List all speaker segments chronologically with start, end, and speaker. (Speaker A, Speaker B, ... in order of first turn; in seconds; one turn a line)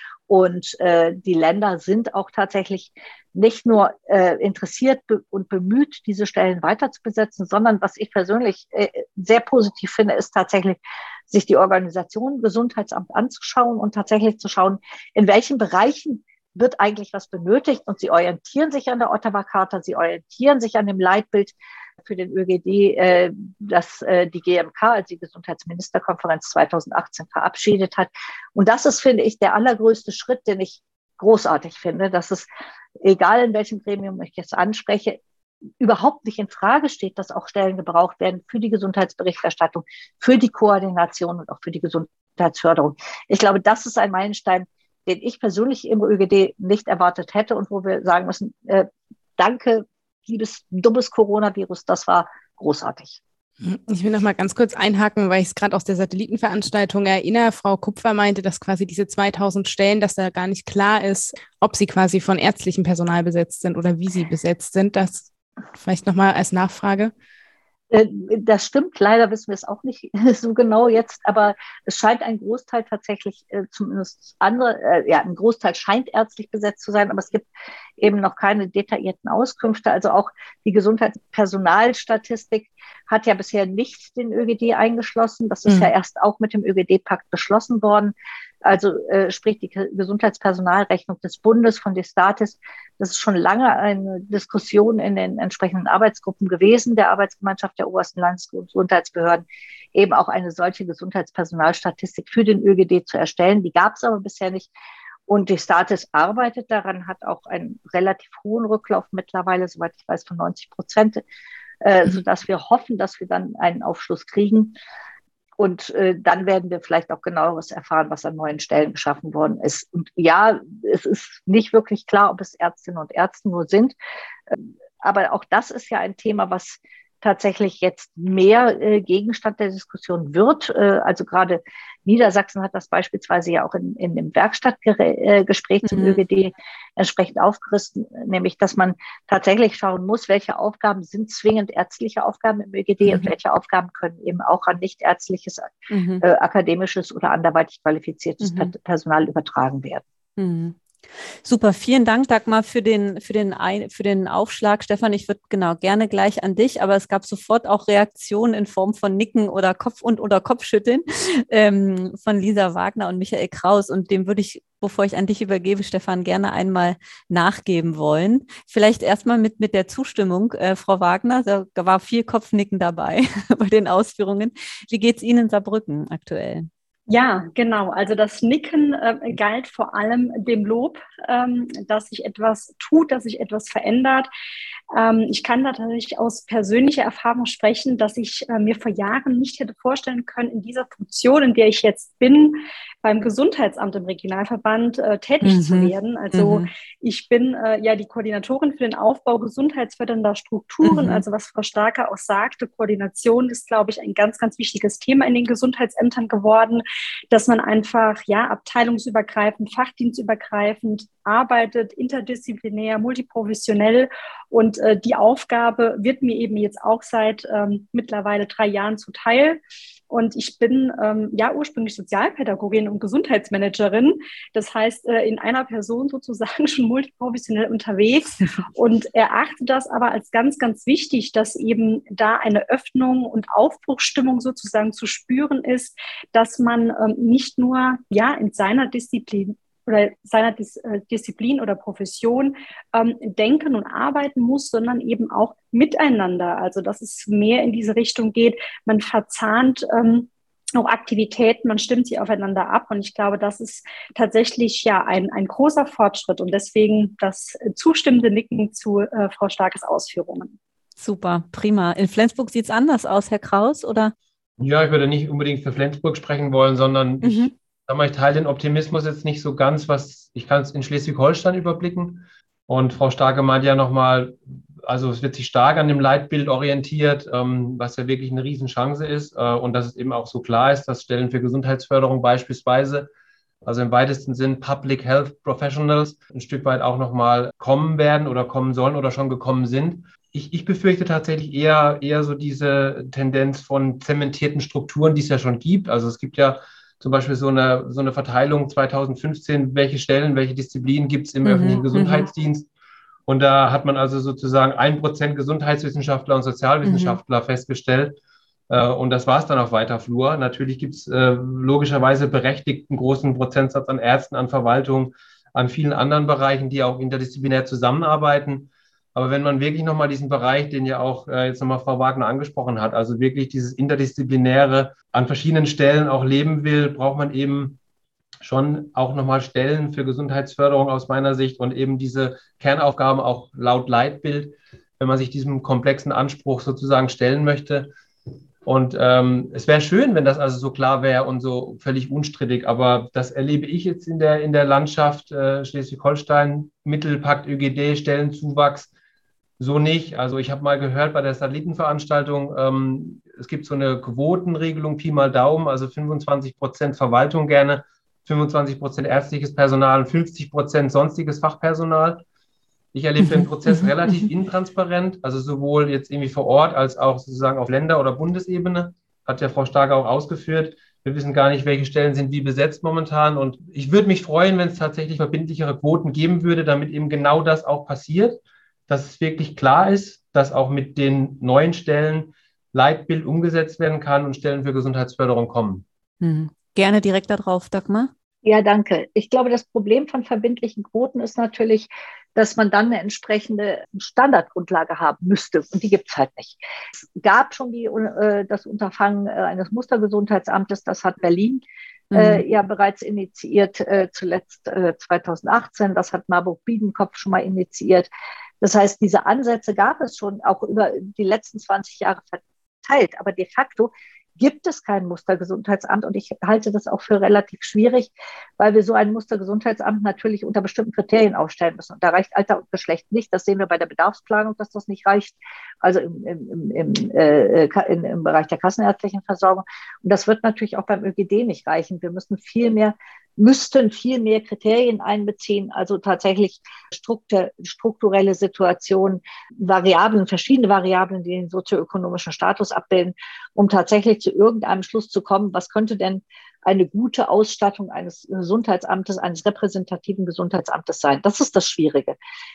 Speaker A: 0.3-32.5
Speaker A: 33.0-35.2
Speaker A: 35.8-53.2
Speaker B: 53.6-67.1
Speaker A: 67.9-104.7
Speaker A: 105.3-111.2
Speaker A: 111.8-114.8
Speaker A: 115.6-124.0
Speaker A: 124.5-150.0
Speaker C: 135.8-136.2
Speaker C: 143.0-143.3
Speaker C: 145.9-146.2
Speaker C: 148.4-148.7
Speaker C: 150.4-150.8
Speaker C: 151.4-176.7
Speaker D: 177.1-184.3
Speaker D: 184.9-260.6
Speaker C: 195.4-196.7
Speaker C: 200.8-201.2
Speaker C: 261.0-264.1
Speaker E: 264.6-283.1
Speaker C: 267.2-267.5
Speaker E: 283.6-302.7
Speaker C: 301.4-302.3
Speaker E: 303.3-308.2
Speaker C: 306.8-307.2
Speaker E: 308.7-327.8
Speaker E: 328.4-337.9
Speaker E: 338.6-348.9
Speaker E: 349.6-362.2
Speaker E: 362.9-385.8
Speaker C: 363.2-364.3
Speaker C: 386.2-388.1
Speaker A: 388.4-408.1
Speaker C: 402.1-402.4
Speaker A: 408.6-452.2